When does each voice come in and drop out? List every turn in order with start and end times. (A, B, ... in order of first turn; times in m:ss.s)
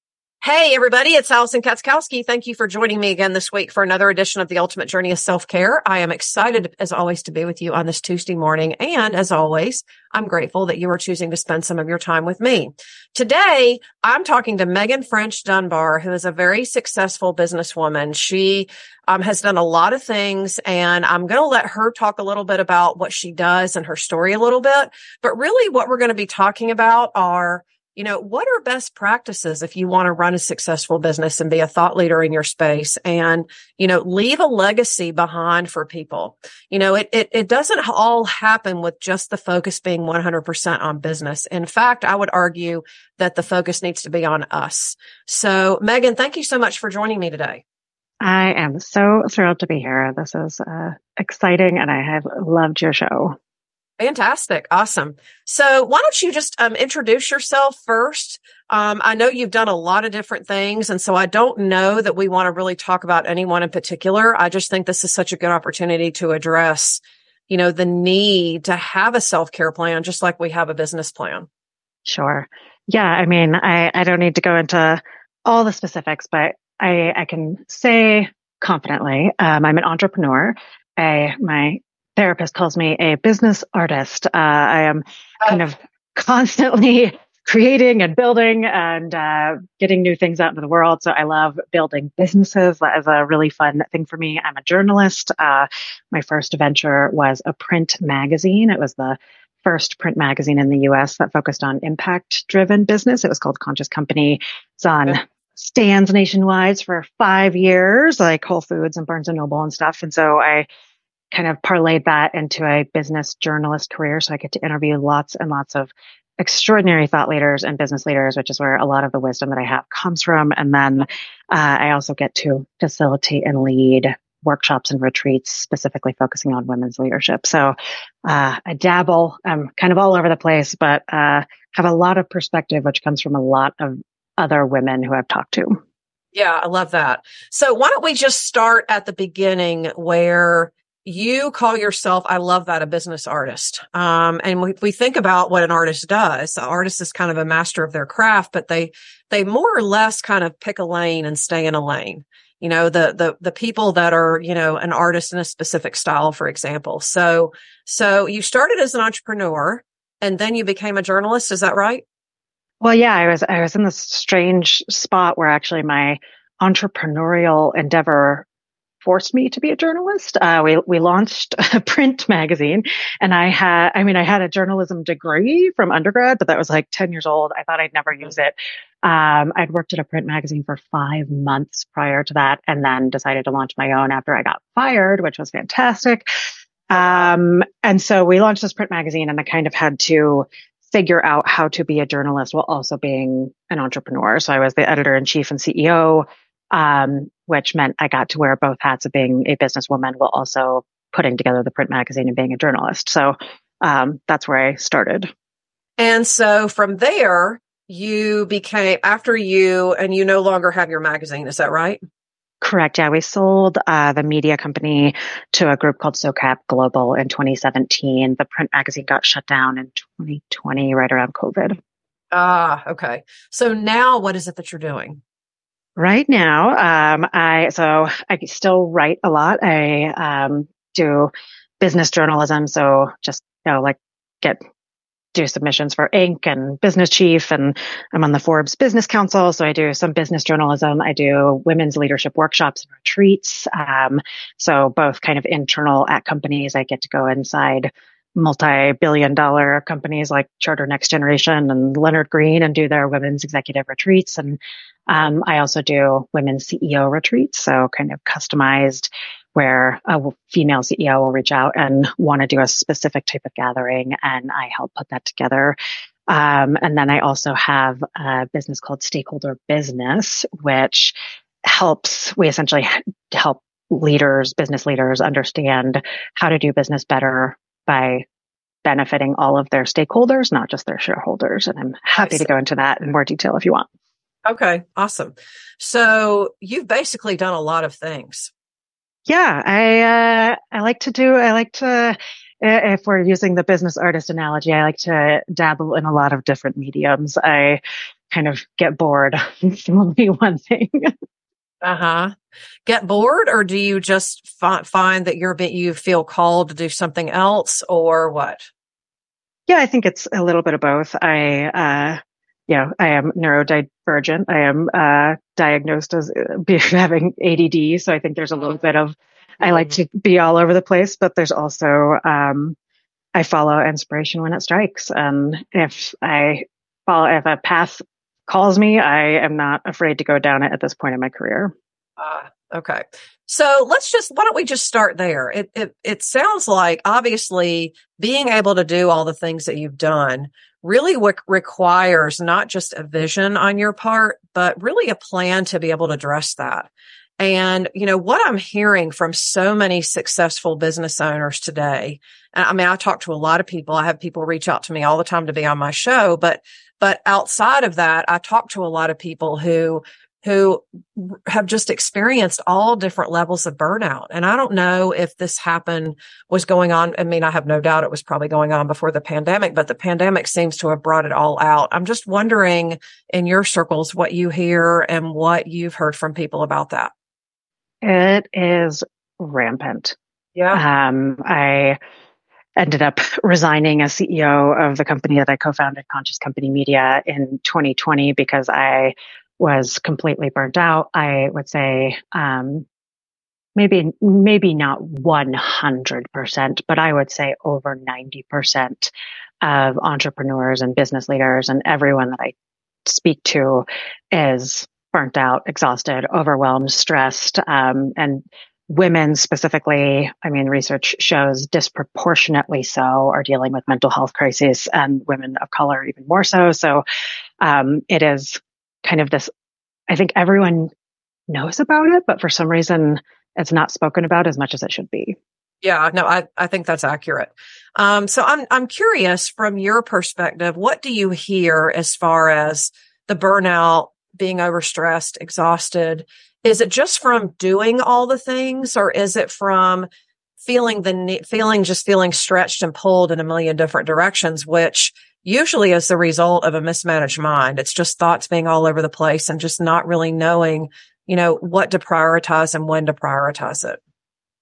0:00.4-0:47.6 A
0:48.2-0:53.4 B
0:54.0-1:11.5 A
1:12.1-1:50.7 B
1:51.3-2:15.8 B
2:16.3-2:42.0 A
2:42.8-2:48.5 B
2:49.0-3:06.3 B
3:06.9-3:25.3 B
3:26.0-3:32.0 A
3:32.6-3:41.8 B
3:42.3-3:45.2 A
3:46.0-3:54.6 B
3:55.3-4:25.8 B
4:26.3-4:38.2 B
4:38.8-4:43.9 B
4:42.2-4:42.5 A
4:44.4-4:48.5 A
4:49.3-5:01.1 B
5:01.8-5:02.3 A
5:02.9-5:08.7 A
5:09.7-5:22.8 B
5:23.4-5:31.7 B
5:32.2-5:46.9 A
5:47.4-6:17.1 A
6:18.0-6:20.2 B
6:20.6-6:20.8 A
6:20.7-6:22.0 B
6:22.8-6:32.9 B
6:33.8-6:42.5 B
6:43.0-6:57.0 B
6:57.6-6:59.5 B
7:00.1-7:00.9 B
7:01.5-7:05.4 B
7:05.8-7:20.1 A
7:20.6-7:34.0 A